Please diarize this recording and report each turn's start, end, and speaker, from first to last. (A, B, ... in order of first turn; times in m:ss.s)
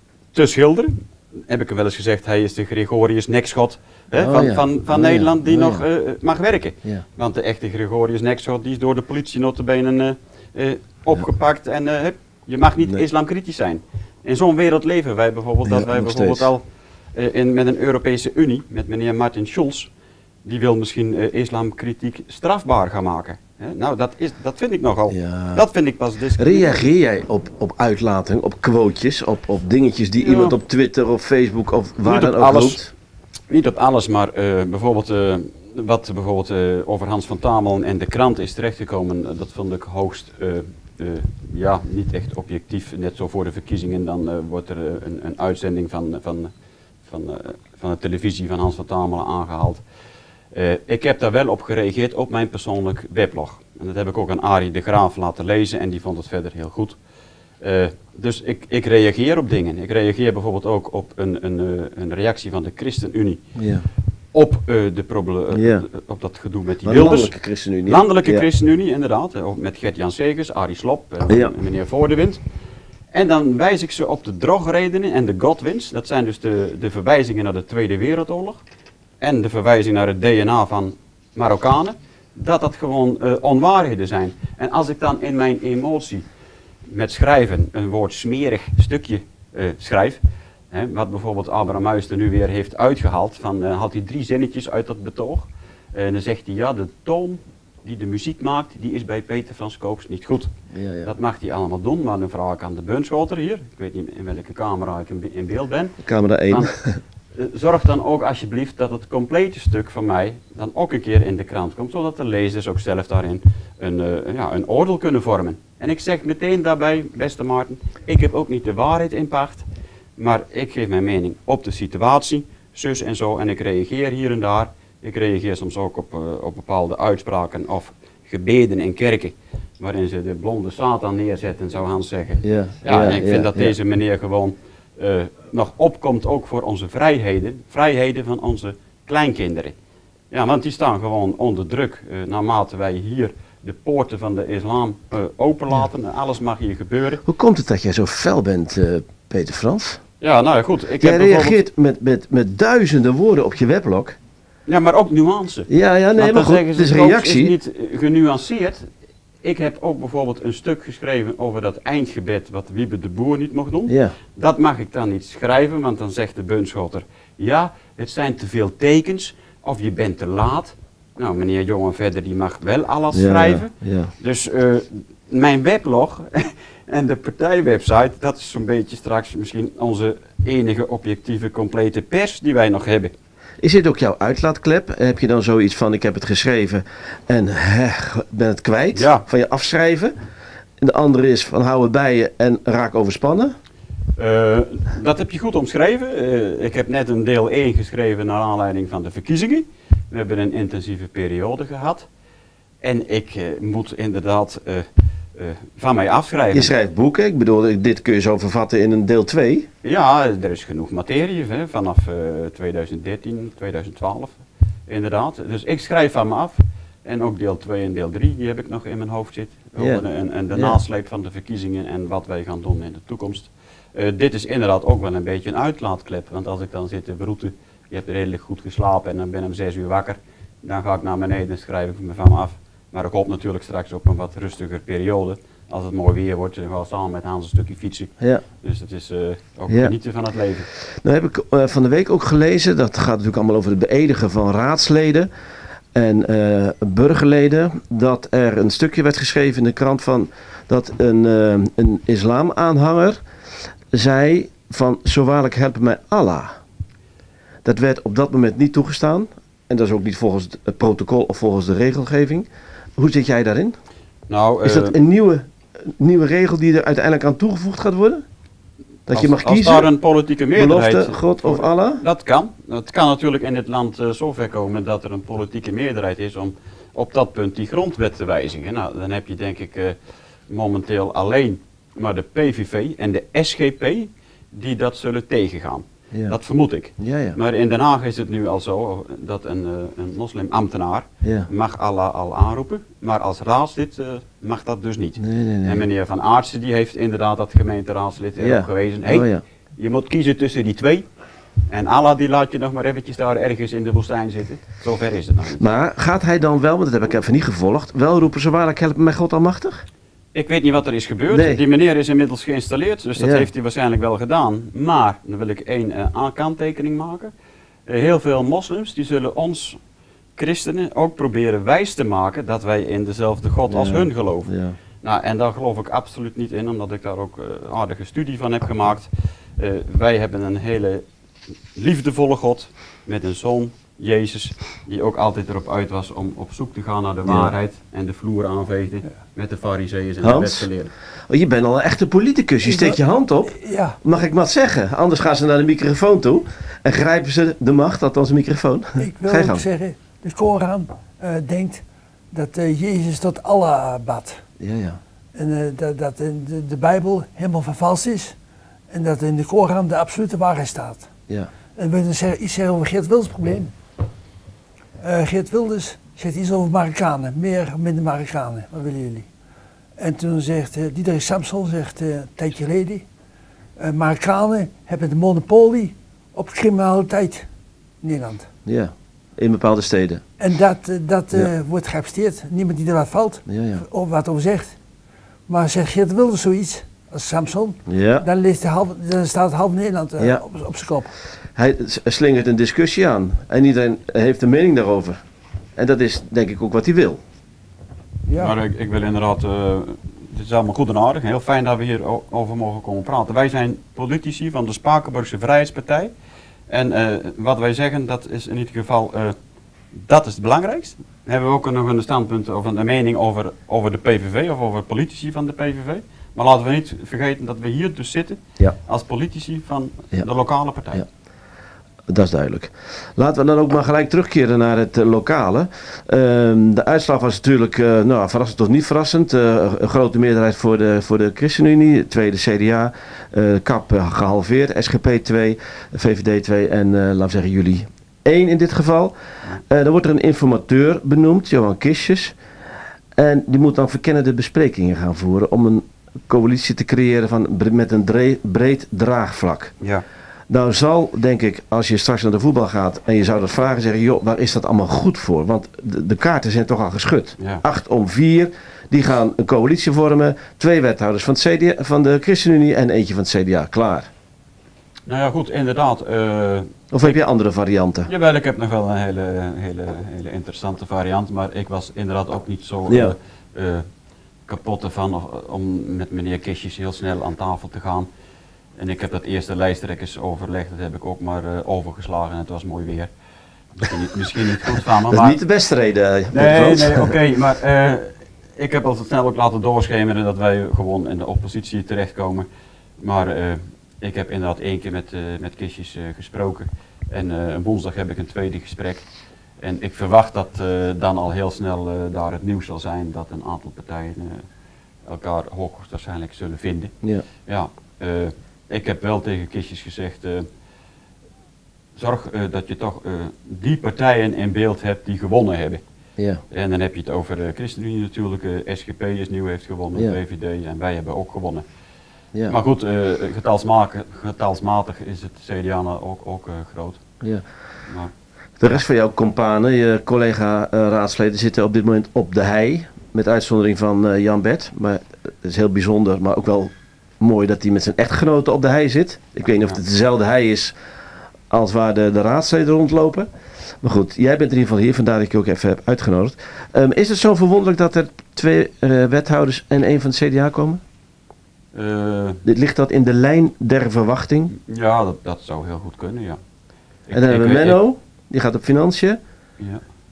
0:00.3-0:16.6 A
0:04.1-0:05.8 B
0:15.6-0:16.5 B
0:17.1-0:19.9 A
0:20.4-0:26.9 A
0:25.1-0:25.7 B
0:26.4-0:32.9 B
0:30.2-0:30.6 A
0:32.0-0:32.8 A
0:33.5-0:46.5 A
0:47.0-0:49.8 A
0:50.5-0:57.0 A
0:57.6-1:03.4 A
1:03.6-1:03.9 B
1:04.3-1:07.3 A
1:05.5-1:05.8 B
1:06.8-1:08.5 B
1:07.8-1:12.4 A
1:11.3-1:11.5 B
1:13.1-1:18.6 A
1:19.2-1:26.2 A
1:26.9-1:40.5 A
1:40.7-1:41.1 B
1:41.0-1:46.0 A
1:46.0-1:47.0 B
1:47.3-1:59.6 A
2:00.2-2:19.7 A
2:12.4-2:13.8 B
2:20.3-2:27.2 A
2:27.2-2:30.0 B
2:30.2-2:31.6 A
2:31.0-2:34.2 B
2:34.7-2:38.9 A
2:35.7-2:37.5 B
2:39.4-3:03.1 A
2:43.9-2:44.1 B
2:53.1-2:54.1 B
3:03.6-3:10.1 B
3:08.9-3:09.2 A
3:10.8-3:13.5 B
3:14.2-3:22.1 A
3:22.8-3:26.7 A
3:26.5-3:29.7 B
3:29.8-4:00.7 A
3:39.8-3:40.8 B
3:59.7-3:59.9 B
4:00.8-4:05.3 B
4:05.9-4:13.2 B
4:13.9-4:16.6 B
4:17.6-4:23.8 B
4:24.3-4:24.9 A
4:24.6-4:28.2 B
4:29.1-4:29.9 B
4:29.1-4:40.0 A
4:30.5-4:32.0 B
4:40.5-5:01.0 A
4:47.0-4:47.4 B
4:51.2-4:51.5 B
4:55.2-4:55.9 B
4:58.4-4:59.4 B
5:01.7-5:05.6 A
5:05.6-5:09.8 B
5:10.3-5:17.3 A
5:11.3-5:11.6 B
5:13.2-5:13.5 B
5:17.9-5:19.8 A
5:20.4-5:31.0 A
5:23.7-5:24.8 B
5:31.7-5:40.9 A
5:37.2-5:37.5 B
5:40.2-5:40.7 B
5:41.3-5:49.6 B
5:42.6-5:44.0 C
5:49.0-5:54.4 C
5:54.6-5:55.0 B
5:55.3-5:58.4 C
5:58.9-6:01.1 C
6:01.8-6:03.7 C
6:05.0-6:09.3 C
6:10.0-6:13.1 C
6:13.8-6:17.5 C
6:18.0-6:18.5 C
6:18.6-6:20.2 B
6:20.4-6:24.8 C
6:23.5-6:23.8 B
6:25.5-6:31.1 C
6:27.9-6:28.2 B
6:31.5-6:35.2 B
6:35.8-6:37.2 B
6:38.3-6:38.5 C
6:38.4-6:46.1 A
6:46.7-6:49.4 A
6:49.9-7:01.0 A
7:02.1-7:19.1 B
7:19.6-7:22.4 B
7:23.2-7:29.7 B
7:30.5-7:44.1 B
7:45.1-7:47.2 A
7:46.9-7:48.1 B
7:48.1-7:53.8 A
7:52.9-7:53.1 B
7:54.5-7:58.1 A
7:58.8-8:03.1 A
8:03.7-8:05.4 A
8:04.5-8:07.1 B
8:06.3-8:12.5 A
8:13.0-8:19.0 A
8:19.6-8:24.4 A
8:25.0-8:26.9 A
8:27.4-8:30.5 A
8:32.0-8:35.8 A
8:36.5-8:41.6 A
8:42.5-8:47.0 A
8:47.9-8:48.1 A
8:48.6-9:00.7 B
9:01.5-9:03.3 B
9:03.8-9:10.8 B
9:11.7-9:12.4 A
9:12.4-9:14.5 B
9:14.5-9:16.4 A
9:17.1-9:17.8 A
9:17.1-9:19.2 B